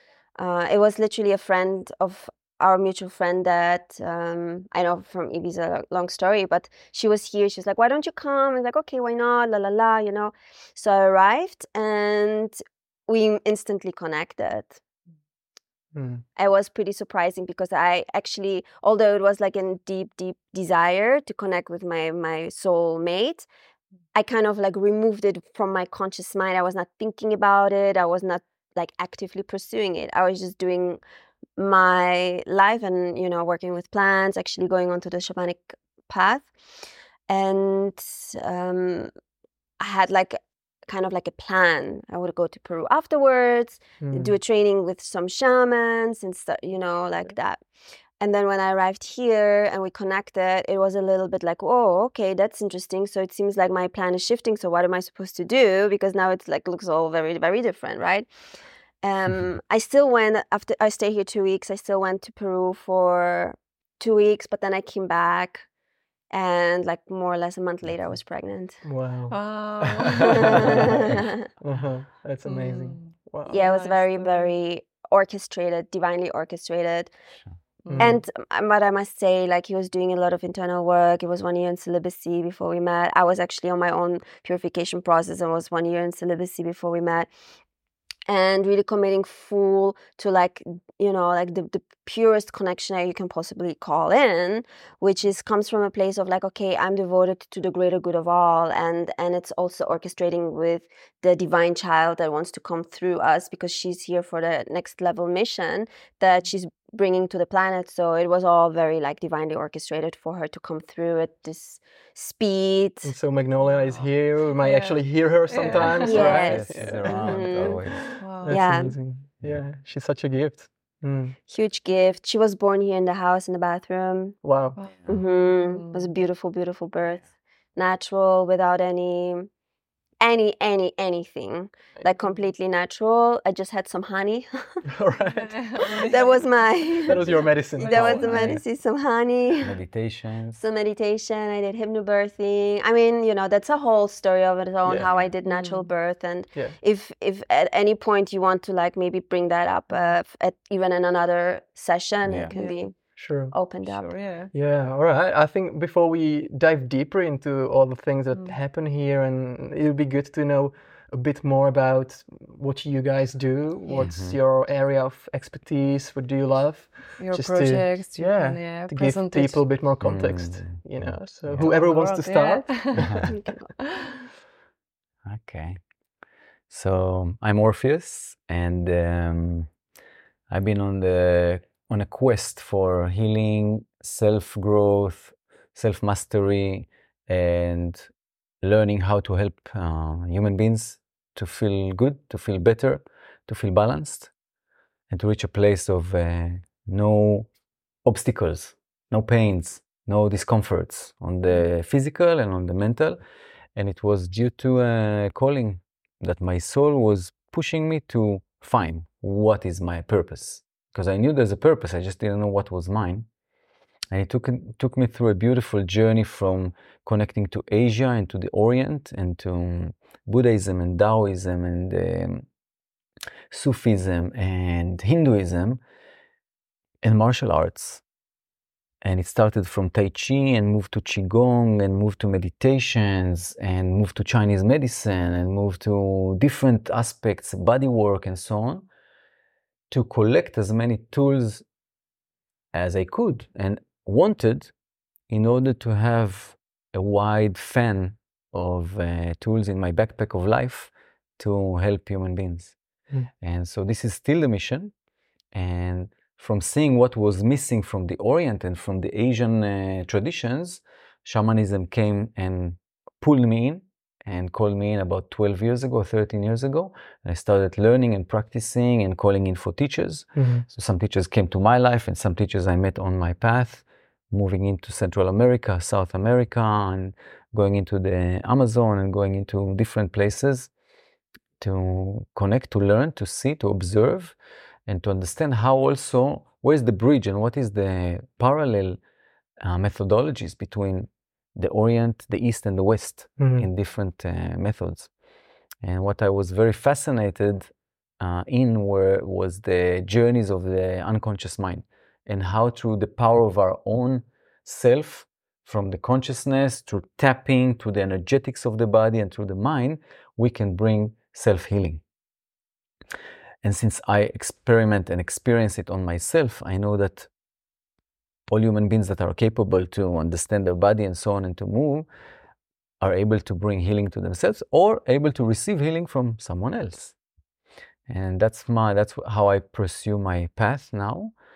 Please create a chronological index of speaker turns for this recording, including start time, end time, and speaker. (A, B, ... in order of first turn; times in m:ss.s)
0:00.4-0:14.8 A
0:15.9-0:16.2 B
0:16.4-0:23.5 A
0:24.2-0:31.0 A
0:31.6-0:36.5 A
0:37.3-0:39.1 A
0:39.8-0:47.6 A
0:44.0-0:44.4 B
0:48.2-0:58.3 A
0:59.0-1:05.6 A
1:06.3-1:08.8 A
1:08.8-1:09.4 B
1:09.3-1:10.6 C
1:10.0-1:13.6 B
1:10.4-1:11.3 A
1:12.4-1:14.5 C
1:13.5-1:17.1 A
1:17.8-1:18.2 C
1:17.9-1:18.2 B
1:18.0-1:27.3 A
1:28.3-1:53.1 A
1:53.0-2:01.4 B
1:54.6-1:56.6 C
1:55.7-1:58.2 D
1:56.0-1:57.9 A
1:58.2-1:58.8 C
1:58.5-1:58.9 A
2:01.5-2:04.4 A
2:04.4-2:04.8 B
2:04.8-2:06.1 C
2:05.1-2:09.5 A
2:10.2-2:14.8 A
2:14.9-2:15.6 B
2:15.3-2:16.4 C
2:15.8-2:19.8 A
2:17.1-2:18.6 B
2:17.8-2:18.6 D
2:18.0-2:18.5 C
2:19.6-2:20.6 D
2:20.6-2:34.1 A
2:24.8-2:25.1 B
2:25.4-2:25.9 C
2:32.2-2:32.5 D
2:32.5-2:32.9 C
2:33.2-2:33.6 B
2:33.8-2:34.5 C
2:34.5-2:53.4 B
2:44.0-2:44.4 D
2:47.2-2:49.7 C
2:50.0-2:51.7 D
2:51.6-2:53.2 C
2:52.9-2:53.3 D
2:53.3-2:53.7 A
2:53.8-2:54.2 C
2:55.3-2:55.8 D
2:56.7-2:59.7 D
3:00.5-3:08.1 D
3:08.6-3:14.3 D
3:15.1-3:17.5 D
3:18.0-3:23.2 D
3:23.8-3:33.3 D
3:34.1-3:42.5 D
3:43.5-3:45.8 D
3:47.0-3:48.0 D
3:49.0-3:58.9 D
3:59.9-4:01.6 D
4:02.7-4:04.7 D
4:05.3-4:12.8 D
4:13.4-4:14.9 D
4:15.5-4:40.7 D
4:30.4-4:30.6 B
4:41.6-4:49.0 D
4:49.6-4:55.1 D
4:53.4-4:53.7 B
4:55.8-5:12.0 D
5:13.6-5:17.3 D
5:18.5-5:22.1 D
5:23.0-5:27.2 D
5:28.1-5:31.3 D